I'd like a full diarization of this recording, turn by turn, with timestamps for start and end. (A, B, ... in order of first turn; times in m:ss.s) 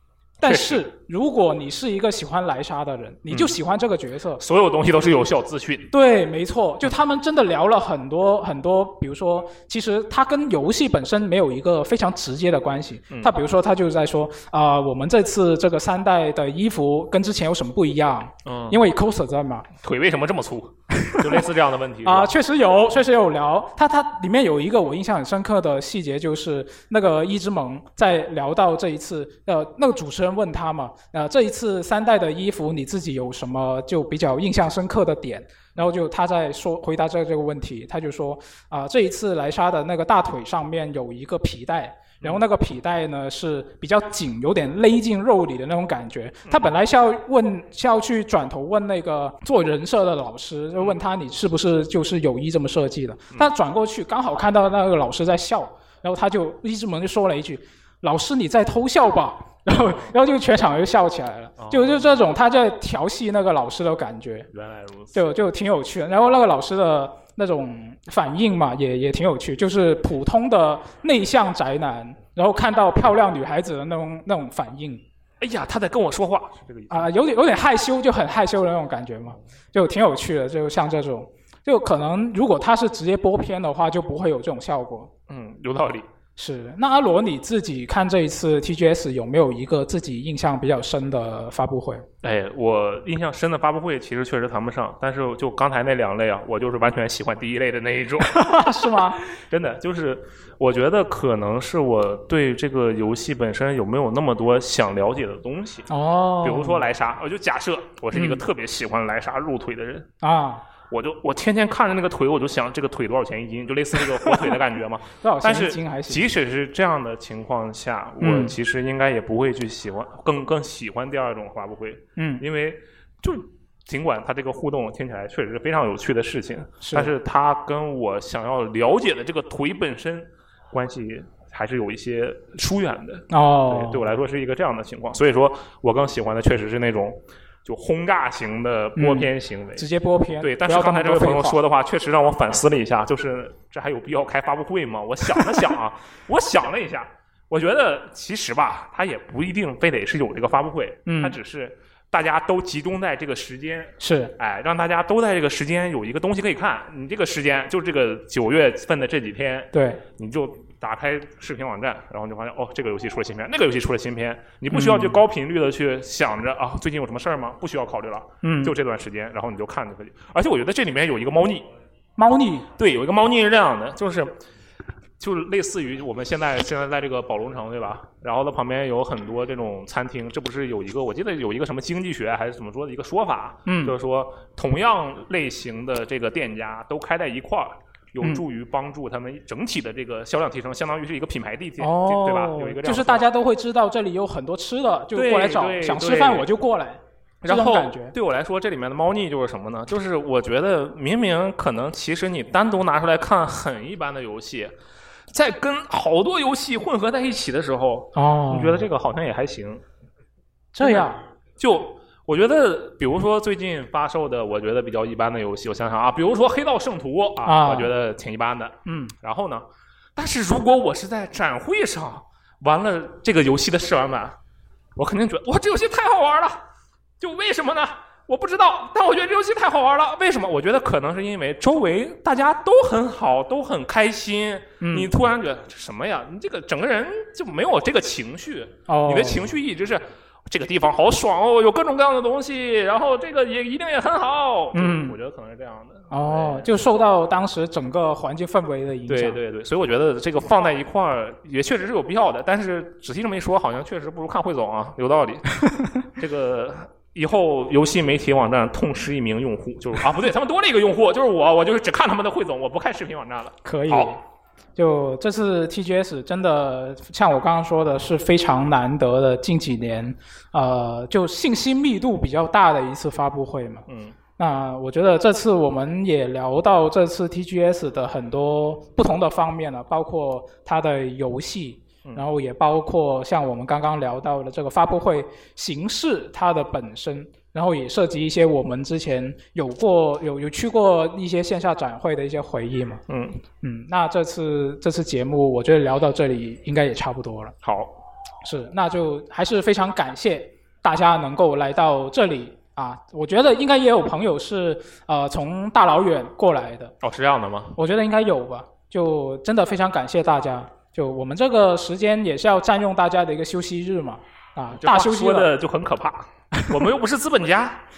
0:00.4-0:00.8 A
0:00.4-0:04.4 B
0:03.3-0:03.6 A
0:04.4-0:05.9 A
0:05.9-0:19.7 B
0:18.5-0:18.8 A
0:19.8-0:22.3 A
0:21.0-0:21.4 B
0:22.0-1:04.5 B
0:46.5-0:46.7 A
0:59.7-1:00.1 A
1:01.6-1:02.2 A
1:04.5-1:05.2 A
1:05.1-1:15.0 B
1:15.4-1:17.1 A
1:16.9-1:25.1 B
1:25.3-1:26.1 A
1:26.4-1:32.1 B
1:32.2-1:45.9 A
1:38.4-1:39.2 B
1:45.9-1:46.8 B
1:46.4-1:50.1 A
1:48.1-1:48.4 B
1:50.2-1:50.6 B
1:50.9-2:19.9 A
1:54.1-1:54.6 B
1:55.2-1:56.2 B
1:58.2-1:58.6 B
2:02.2-2:02.4 B
2:06.8-2:07.1 B
2:13.3-2:14.0 B
2:19.0-2:21.6 B
2:20.4-2:51.7 A
2:31.1-2:31.4 B
2:34.0-2:34.3 B
2:39.7-2:40.0 B
2:44.7-2:45.2 B
2:48.4-2:48.8 B
2:52.2-2:52.7 B
2:52.8-2:54.4 A
2:55.2-3:13.3 A
3:03.7-3:04.0 B
3:11.8-3:18.2 B
3:15.1-3:16.5 A
3:17.4-3:24.7 A
3:25.3-3:29.8 A
3:28.2-3:28.9 B
3:30.8-3:31.2 B
3:30.8-3:39.6 A
3:37.4-3:37.9 B
3:38.9-3:39.1 B
3:40.2-3:44.4 A
3:45.0-3:46.6 A
3:47.2-4:07.0 A
3:54.8-3:55.1 B
3:58.9-3:59.5 B
4:04.7-4:05.2 B
4:06.1-4:09.4 B
4:09.1-4:15.7 A
4:16.2-4:24.1 A
4:23.6-4:24.2 B
4:24.8-4:33.9 B
4:33.9-4:34.2 A
4:34.4-4:53.0 B
4:53.1-4:53.4 A
4:53.6-4:57.6 B
4:57.6-4:57.9 A
4:58.4-5:07.0 B
5:07.0-5:07.8 A
5:07.8-5:15.5 B
5:14.8-5:17.8 A
5:16.6-5:16.9 B